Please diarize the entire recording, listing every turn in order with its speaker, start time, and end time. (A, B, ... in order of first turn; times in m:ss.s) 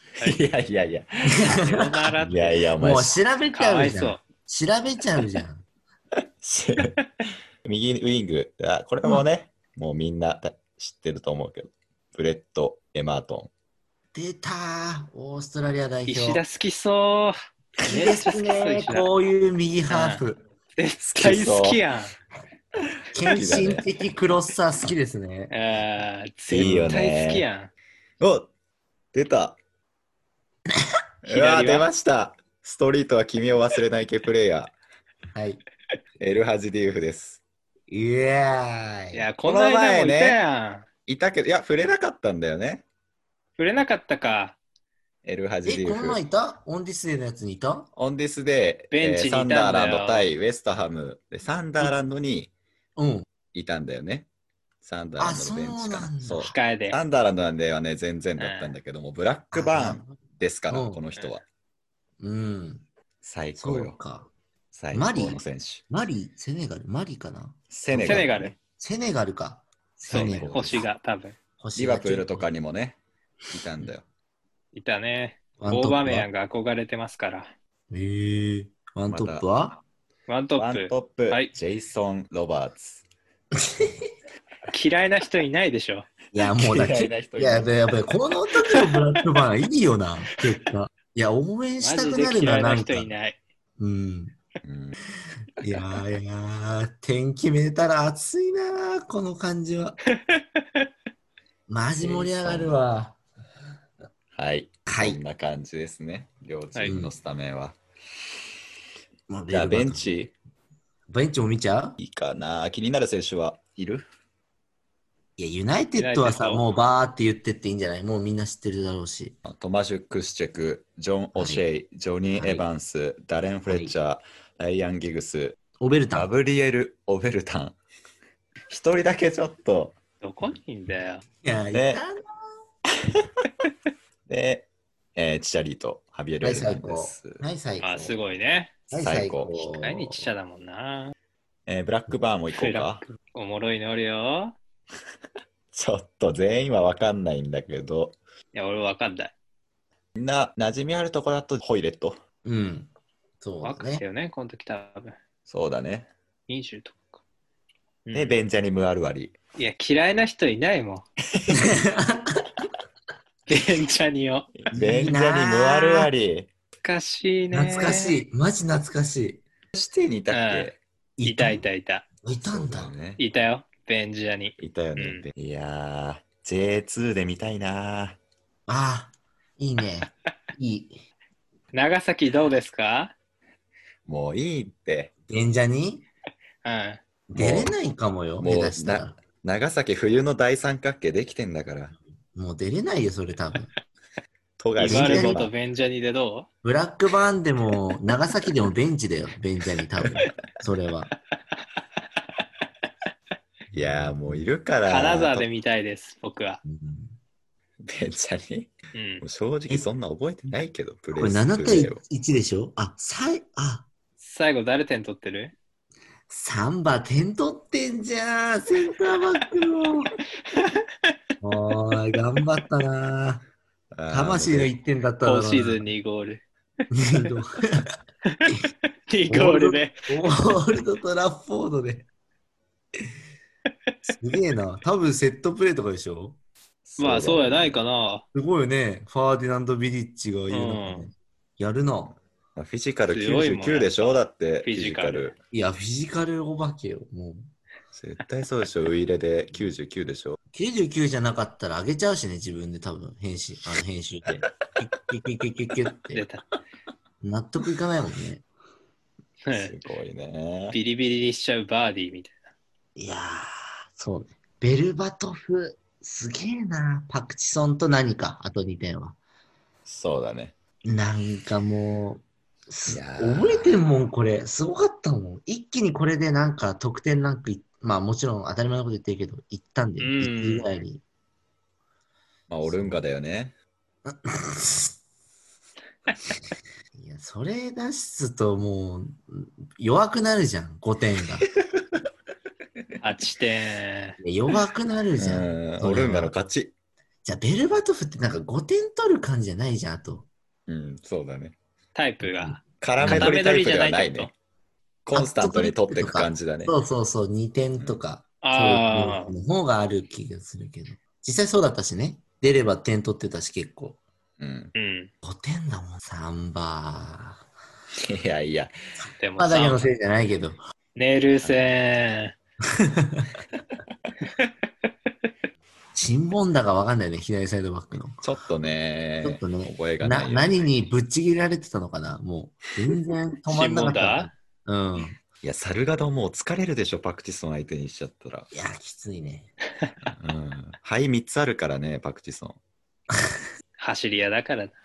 0:00.2-0:01.3 A
0:01.3-0:01.9 B
0:01.5-0:02.7 C
0:02.2-0:03.2 A
0:02.8-0:05.6 B
0:03.5-0:04.2 C
0:06.4-0:07.0 A
0:07.6-0:13.5 A
0:14.1-0:16.4 B
0:16.1-0:19.1 C
0:17.8-0:20.4 B
0:19.9-0:20.2 C
0:20.8-0:22.1 C
0:21.0-0:21.8 A
0:23.1-0:25.5 B
0:23.3-0:23.9 A
0:25.5-0:27.7 C
0:26.5-0:27.5 A
0:28.2-0:28.5 A
0:29.1-0:29.6 A
0:31.2-0:34.7 A
0:31.3-0:31.9 C
0:35.3-0:35.6 B
0:36.2-0:37.4 A
0:37.9-0:39.3 B
0:39.1-0:40.9 C
0:39.4-0:40.4 A
0:41.1-0:42.8 A
0:43.6-0:44.6 C
0:45.2-0:46.2 A
0:45.6-0:47.9 B
0:48.0-0:52.5 A
0:48.9-0:50.3 C
0:53.0-0:53.3 B
0:53.5-0:54.3 A
0:54.8-1:01.4 A
0:55.2-0:56.6 B
0:56.4-0:57.0 C
0:58.4-0:58.8 C
0:59.5-1:01.0 B
1:02.2-1:02.8 B
1:03.2-1:04.0 A
1:03.6-1:04.3 B
1:04.7-1:05.8 A
1:04.9-1:10.9 B
1:07.7-1:08.6 A
1:08.0-1:08.5 C
1:10.1-1:11.4 C
1:10.1-1:10.9 A
1:11.6-1:12.5 B
1:11.8-1:13.0 A
1:13.5-1:14.1 A
1:14.7-1:17.5 C
1:15.6-1:16.3 B
1:17.9-1:19.8 B
1:19.1-1:19.4 A
1:20.3-1:21.5 C
1:20.6-1:23.0 A
1:23.6-1:24.1 B
1:24.7-1:26.1 C
1:26.3-1:33.2 B
1:26.4-1:28.0 A
1:31.8-1:33.4 C
1:33.8-1:34.4 B
1:34.6-1:35.0 A
1:35.6-1:40.0 B
1:40.1-1:40.8 C
1:41.7-1:43.2 B
1:42.0-1:42.8 A
1:44.3-1:47.8 A
1:44.9-1:45.2 B
1:46.9-1:47.1 B
1:49.3-1:50.1 B
1:49.5-1:50.3 A
1:51.1-1:52.0 B
1:52.0-1:54.1 A
1:55.4-1:59.4 B
1:56.0-1:56.6 C
1:59.4-2:05.6 A
2:01.4-2:01.6 B
2:02.4-2:02.6 B
2:03.7-2:03.9 B
2:05.8-2:06.3 B
2:06.1-2:07.8 A
2:08.7-2:10.0 A
2:10.2-2:11.2 C
2:11.4-2:12.2 B
2:11.7-2:12.0 A
2:14.3-2:17.4 A
2:16.4-2:18.2 B
2:17.8-2:18.7 C
2:18.9-2:20.3 B
2:19.0-2:19.6 A
2:19.8-2:21.1 C
2:21.7-2:23.0 A
2:22.5-2:24.6 C
2:25.7-2:28.2 A
2:28.5-2:29.3 C
2:30.2-2:32.2 A
2:32.4-2:34.0 B
2:33.6-2:35.2 C
2:35.5-2:36.1 A
2:36.5-2:37.2 C
2:38.1-2:38.4 C
2:38.1-2:39.3 A
2:39.6-2:41.1 C
2:41.5-2:42.4 B
2:43.5-2:44.5 C
2:44.6-2:46.5 A
2:44.7-2:46.1 B
2:46.8-2:48.2 C
2:47.5-2:49.4 B
2:49.7-2:50.8 A
2:50.3-2:52.1 C
2:51.2-2:51.7 B
2:52.2-2:52.9 B
2:52.4-2:53.2 A
2:53.2-2:55.2 C
2:54.6-2:58.2 A
2:58.7-3:01.0 B
3:01.7-3:03.1 C
3:04.1-3:05.1 A
3:05.3-3:06.1 B
3:06.6-3:07.0 C
3:07.3-3:09.2 B
3:07.4-3:07.7 A
3:08.4-3:11.9 A
3:12.3-3:13.7 B
3:14.6-3:15.5 A
3:14.8-3:16.5 C
3:14.8-3:15.5 B
3:16.6-3:21.1 B
3:23.7-3:24.4 B
3:23.7-3:25.5 A
3:24.9-3:26.6 C
3:26.6-3:27.2 B
3:27.8-3:32.0 A
3:28.9-3:29.2 C
3:31.2-3:33.9 B
3:34.2-3:35.5 C
3:36.3-3:40.2 B
3:40.6-3:40.8 C
3:41.4-3:43.4 B
3:43.9-3:44.7 A
3:44.1-3:45.9 B
3:45.2-3:46.4 C
3:46.9-3:47.9 B
3:48.2-3:50.1 C
3:49.3-3:52.1 B
3:54.2-3:56.4 B
3:56.9-3:57.7 A
3:57.0-3:58.2 C
3:58.3-4:02.2 B
4:00.5-4:01.1 C
4:02.6-4:05.4 A
4:03.1-4:05.4 C
4:05.5-4:07.5 B
4:07.9-4:10.4 A
4:10.5-4:16.2 B
4:14.2-4:14.5 A
4:16.1-4:16.4 C
4:17.2-4:18.4 B
4:19.5-4:19.7 C
4:19.5-4:20.8 A
4:20.7-4:22.4 C
4:23.0-4:29.2 B
4:29.9-4:30.6 A
4:30.8-4:41.0 B
4:32.9-4:33.8 A
4:40.0-4:40.7 C
4:42.5-4:43.6 A
4:42.6-4:43.0 B
4:44.0-4:45.0 B
4:46.9-4:51.5 B
4:53.0-4:54.2 C
4:54.2-4:56.4 B
4:55.2-4:56.7 A
4:57.2-5:00.3 B
5:00.7-5:01.6 A
5:01.9-5:04.3 C
5:02.2-5:03.4 B
5:02.7-5:04.3 A
5:05.1-5:06.8 A
5:05.1-5:14.0 B
5:08.4-5:09.3 C
5:14.4-5:14.7 A
5:14.8-5:15.1 C
5:15.2-5:17.4 B
5:18.0-5:18.8 A
5:19.2-5:19.9 C
5:19.4-5:20.6 B
5:21.0-5:22.4 C
5:21.4-5:21.7 A
5:22.8-5:23.3 B
5:24.2-5:24.5 C
5:25.9-5:28.2 B
5:28.2-5:30.5 A
5:29.2-5:35.2 B
5:33.5-5:34.3 C
5:35.4-5:38.5 A
5:38.5-5:39.5 B
5:40.2-5:42.6 A
5:43.8-5:44.8 C